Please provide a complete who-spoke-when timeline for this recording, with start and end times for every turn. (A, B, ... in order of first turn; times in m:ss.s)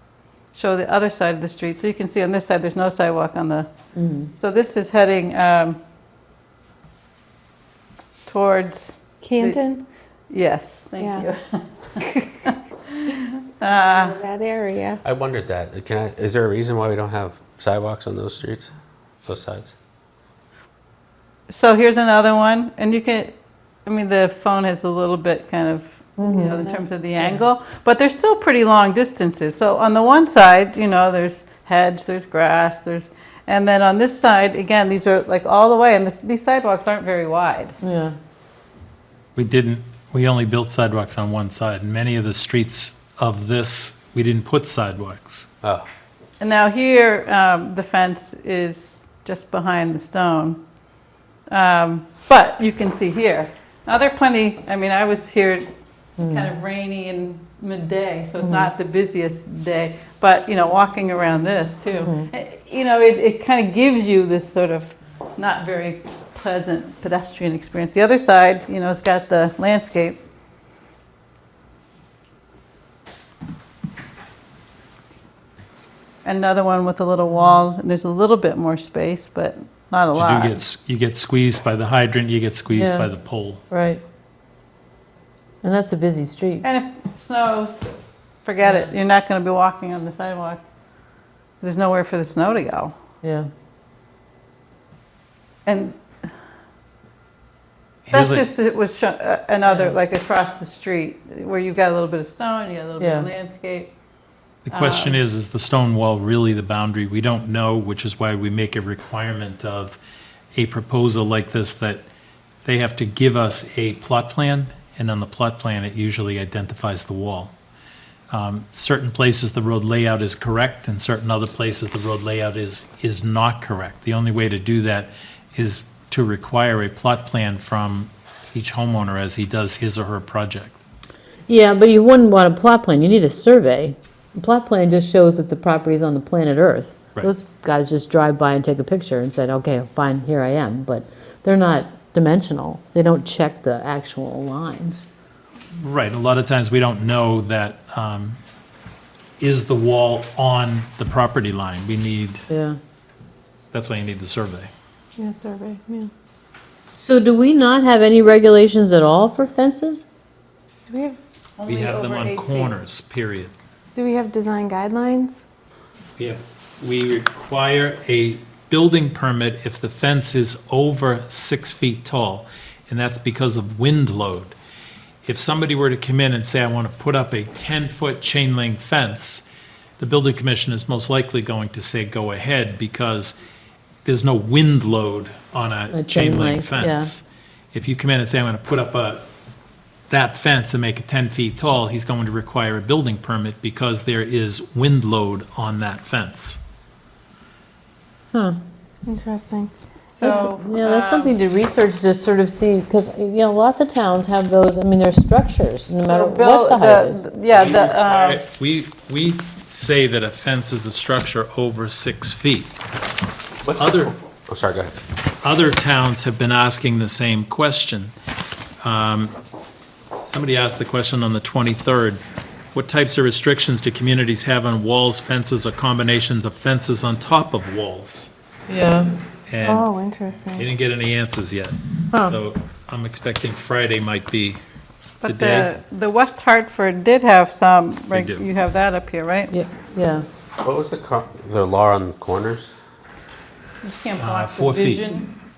0:00.5-0:03.7 A
0:03.9-0:04.3 B
0:04.4-0:05.8 A
0:08.2-0:09.6 A
0:09.2-0:09.8 C
0:10.3-0:14.2 A
0:11.0-0:11.3 C
0:13.7-0:15.0 C
0:15.0-0:18.7 D
0:19.2-0:19.7 D
0:21.5-0:37.8 A
0:26.2-0:26.6 B
0:37.8-0:38.1 B
0:39.4-0:45.5 E
0:46.4-0:50.6 A
0:51.5-0:55.7 A
0:56.2-0:56.5 B
0:56.2-1:10.2 A
0:58.4-0:58.7 B
1:02.0-1:02.3 B
1:16.2-1:20.6 A
1:17.3-1:17.6 B
1:20.1-1:23.6 E
1:22.7-1:23.1 B
1:23.7-1:24.0 B
1:25.6-1:26.6 B
1:26.6-1:30.6 A
1:28.6-1:28.9 B
1:31.6-1:32.9 A
1:35.6-1:36.0 A
1:38.0-1:38.5 E
1:38.1-1:43.9 A
1:39.6-1:39.9 B
1:43.0-1:43.3 B
1:44.6-1:50.0 E
1:44.7-1:45.2 A
1:50.5-1:52.0 E
1:52.6-1:57.5 E
1:58.3-2:10.8 E
2:11.5-2:25.1 B
2:25.8-2:28.4 E
2:29.4-2:32.5 E
2:32.5-2:32.8 B
2:33.7-2:34.7 E
2:35.2-2:36.1 C
2:36.9-2:40.0 B
2:40.9-2:41.2 C
2:41.6-2:42.7 A
2:41.6-2:43.5 E
2:43.9-2:45.4 C
2:46.2-2:54.5 E
2:55.2-2:59.4 E
3:00.0-3:03.4 E
3:04.0-3:09.3 E
3:05.9-3:07.1 B
3:10.1-3:16.6 E
3:19.1-3:19.7 C
3:20.1-3:21.4 A
3:20.2-3:27.2 B
3:26.1-3:28.4 A
3:27.5-3:32.7 E
3:33.6-3:34.9 D
3:33.8-3:34.1 E
3:35.4-3:38.1 E
3:38.8-3:39.3 E
3:40.2-3:42.2 E
3:42.7-3:48.3 E
3:48.7-3:49.1 B
3:49.5-3:49.9 E
3:49.6-3:50.7 C
3:50.5-3:54.6 E
3:52.1-3:52.4 B
3:55.2-3:59.5 A
3:55.2-3:55.7 E
3:58.1-3:58.5 E
3:59.5-4:00.2 B
4:00.6-4:02.7 D
4:03.8-4:05.3 A
4:04.2-4:05.0 E